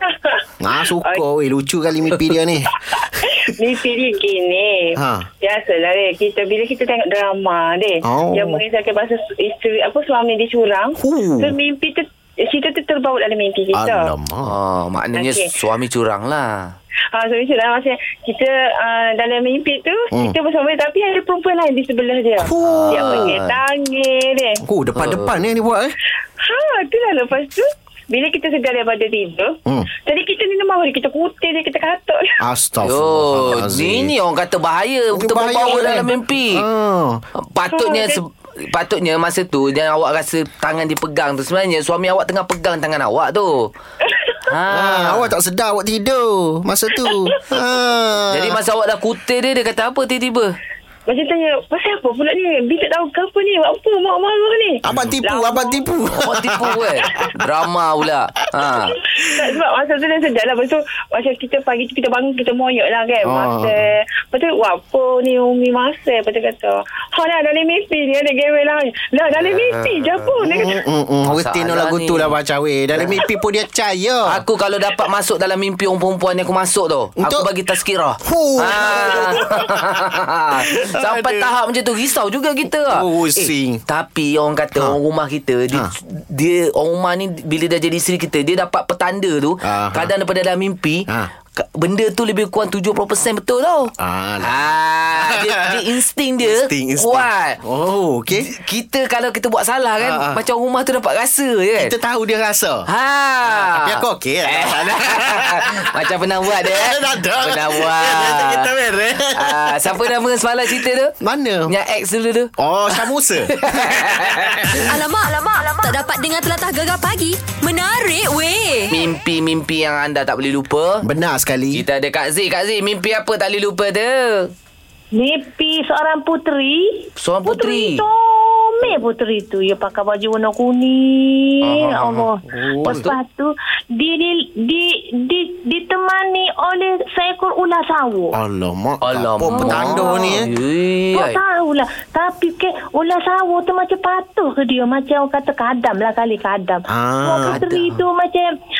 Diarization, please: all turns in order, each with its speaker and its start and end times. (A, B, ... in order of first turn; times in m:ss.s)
0:00.6-0:03.3 A
0:03.6-0:14.1 B
0:05.0-0:05.2 A
0:08.0-0:08.6 A
0:11.0-0:11.6 A
0:13.7-0:14.5 A
0:14.5-0:16.7 C
0:15.1-0:15.4 B
0:17.1-0:24.6 B
0:22.4-0:23.3 A
0:22.6-0:23.6 C
0:24.6-0:25.9 A
0:25.0-0:25.3 C
0:26.5-0:32.2 B
0:32.4-0:34.1 A
0:32.8-0:36.6 C
0:35.1-0:37.2 A
0:37.4-0:43.7 C
0:37.7-0:38.2 B
0:44.5-0:45.3 C
0:44.7-0:48.6 A
0:48.3-0:50.6 C
0:51.1-0:55.8 B
0:54.9-0:57.4 A
0:56.2-0:59.0 C
0:59.0-1:10.8 B
1:03.2-1:03.8 A
1:09.3-1:10.4 C
1:10.4-1:14.4 A
1:11.3-1:12.4 C
1:12.9-1:13.2 C
1:14.3-1:37.6 C
1:17.2-1:17.5 A
1:18.2-1:21.5 A
1:22.9-1:23.8 A
1:29.6-1:30.1 A
1:34.0-1:35.8 A
1:36.4-1:38.5 A
1:38.4-1:41.9 C
1:40.0-1:40.4 A
1:41.8-1:42.9 A
1:42.9-1:48.7 C
1:43.4-1:45.8 A
1:46.5-1:50.0 A
1:49.3-1:51.1 C
1:51.2-1:51.7 A
1:51.7-1:52.5 C
1:52.6-1:54.9 A
1:53.6-1:54.8 C
1:54.8-1:59.0 D
1:58.9-2:01.0 C
2:01.0-2:01.8 A
2:01.7-2:04.5 C
2:05.1-2:18.3 E
2:07.2-2:08.0 C
2:11.6-2:12.3 C
2:12.5-2:13.1 A
2:12.8-2:13.1 C
2:18.3-2:20.5 A
2:19.0-2:21.4 C
2:19.5-2:20.4 E
2:21.1-2:28.5 E
2:26.9-2:27.8 A
2:27.5-2:27.8 C